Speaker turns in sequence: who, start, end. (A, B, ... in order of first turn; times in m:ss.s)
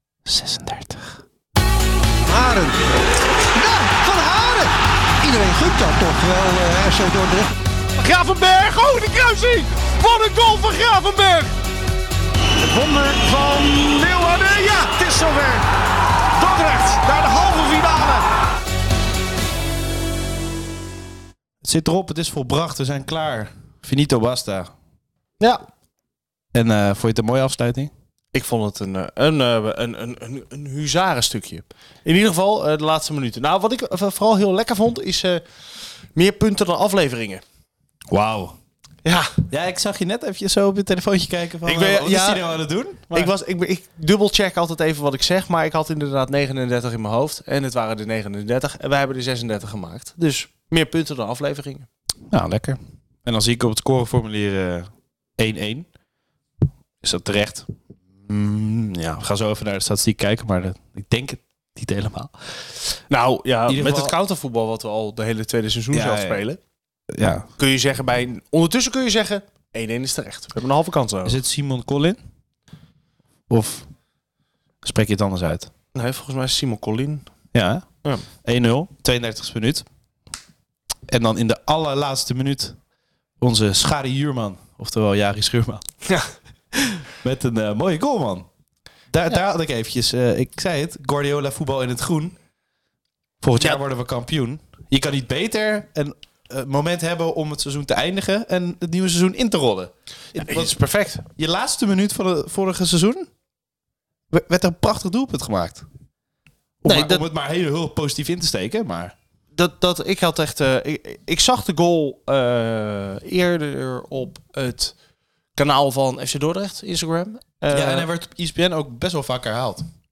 0:00.2-0:01.2 A
0:02.2-0:03.0 B
0:03.5-0:07.5 B
0:08.0-0:11.5 C
0:12.6-0:14.6 B
0:14.0-0:15.6 C
0:16.4-0:18.2 C
0:21.6-0:24.7 A
0:25.4-0:25.6 C
0:26.5-0:27.9 A
0:28.3-0:35.4 C
0:36.1-0:37.4 C
0:38.1-0:38.5 A
0:39.0-0:39.3 C
0:39.5-0:43.3 A
0:41.6-0:42.4 C
0:43.1-0:51.8 C
0:52.3-0:55.9 A
0:57.0-0:57.7 A
0:58.2-1:02.6 A
1:03.1-1:06.6 C
1:03.7-1:04.2 A
1:05.9-1:06.4 A
1:07.1-1:07.5 A
1:07.6-1:11.3 C
1:11.2-1:12.2 A
1:13.5-1:13.9 A
1:14.8-1:15.7 A
1:15.9-1:17.2 C
1:17.5-1:17.9 A
1:18.4-1:19.8 A
1:21.1-1:22.8 A
1:23.4-1:25.8 A
1:27.2-1:28.5 A
1:29.1-1:32.4 A
1:33.4-1:40.8 A
1:40.4-1:41.2 C
1:41.3-1:43.3 A
1:44.3-1:45.9 A
1:46.8-1:49.1 A
1:46.8-1:47.2 C
1:49.6-1:54.9 C
1:55.6-1:58.0 C
1:57.7-1:59.8 A